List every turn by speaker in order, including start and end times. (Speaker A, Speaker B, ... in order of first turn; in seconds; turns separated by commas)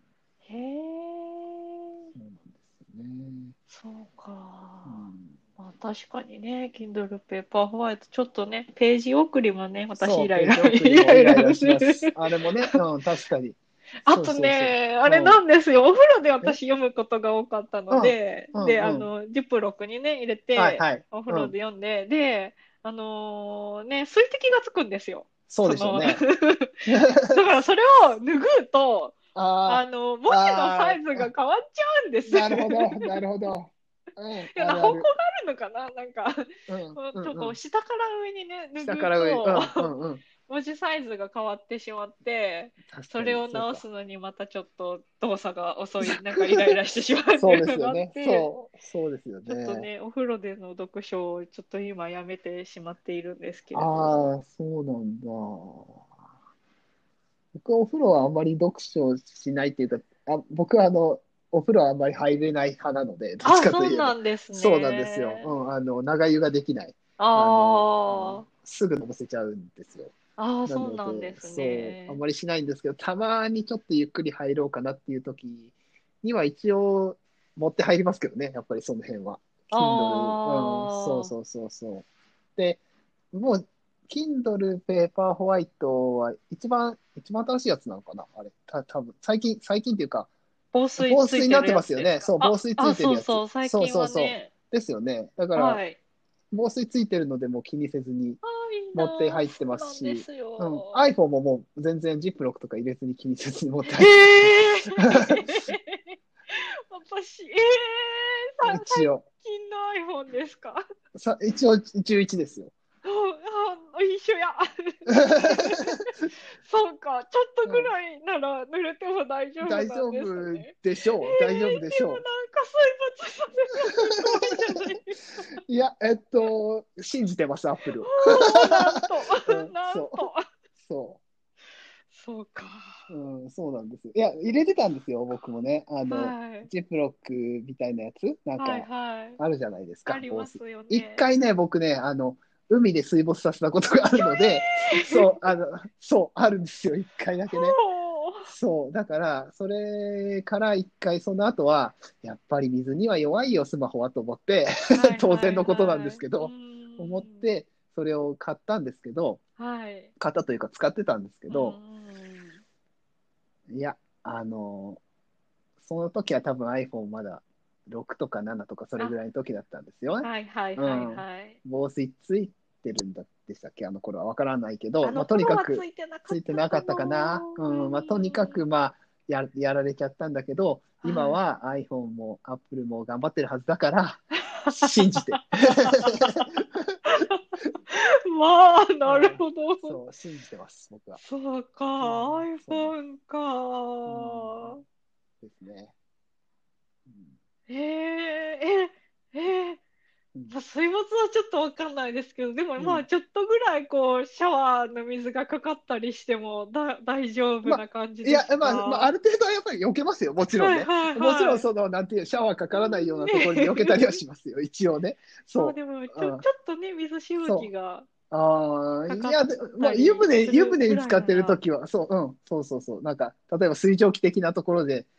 Speaker A: 0.4-2.1, Speaker B: 2.1-3.5, Speaker A: 3.7-5.0, Speaker B: 4.8-5.3, Speaker A: 5.6-12.1, Speaker B: 9.9-15.4, Speaker A: 14.0-29.1, Speaker B: 17.9-19.1, Speaker B: 20.6-21.5, Speaker B: 25.5-26.2, Speaker B: 26.9-27.4, Speaker B: 29.3-31.3, Speaker A: 29.7-33.1, Speaker B: 32.3-35.1, Speaker A: 34.5-39.9, Speaker B: 36.7-37.5, Speaker B: 38.8-40.2, Speaker A: 40.5-48.6, Speaker B: 42.9-43.8, Speaker B: 46.1-46.6, Speaker B: 47.4-49.9, Speaker A: 49.5-54.3, Speaker B: 53.7-56.0, Speaker B: 57.5-70.1, Speaker A: 63.4-65.5, Speaker A: 67.2-68.4, Speaker A: 70.4-72.2, Speaker B: 70.7-82.8, Speaker A: 79.7-81.3, Speaker B: 83.3-90.3, Speaker A: 90.7-94.5, Speaker B: 91.0-95.8, Speaker A: 95.5-96.0, Speaker B: 96.5-98.4, Speaker A: 98.4-101.0, Speaker B: 98.9-105.3, Speaker A: 103.9-110.8, Speaker B: 108.6-109.2, Speaker B: 111.1-112.7, Speaker A: 113.0-125.5, Speaker B: 115.2-115.7, Speaker B: 117.6-117.9, Speaker B: 119.6-122.2, Speaker B: 125.6-131.2, Speaker A: 128.0-130.4, Speaker A: 132.1-133.1, Speaker B: 133.1-147.8, Speaker A: 136.1-136.7, Speaker A: 138.6-139.4, Speaker A: 140.1-141.2, Speaker A: 144.1-145.4, Speaker A: 147.5-148.5, Speaker B: 148.4-159.4, Speaker A: 154.9-157.5, Speaker A: 159.6-160.1, Speaker B: 160.2-161.8, Speaker A: 161.5-162.6, Speaker B: 163.7-165.0, Speaker B: 165.8-187.0, Speaker A: 170.2-171.6, Speaker A: 175.0-178.6, Speaker A: 181.0-181.4, Speaker A: 184.5-186.5, Speaker A: 187.1-190.0, Speaker B: 189.1-191.2, Speaker A: 191.1-194.8, Speaker B: 192.0-192.9, Speaker B: 194.1-194.8, Speaker B: 195.4-195.9, Speaker B: 197.1-197.3, Speaker A: 197.7-199.8, Speaker A: 200.5-209.1, Speaker B: 202.8-203.1, Speaker B: 207.6-216.4, Speaker A: 210.6-211.6, Speaker A: 212.7-214.1, Speaker A: 215.5-218.1, Speaker B: 217.4-217.7, Speaker B: 218.3-225.1, Speaker A: 219.1-221.6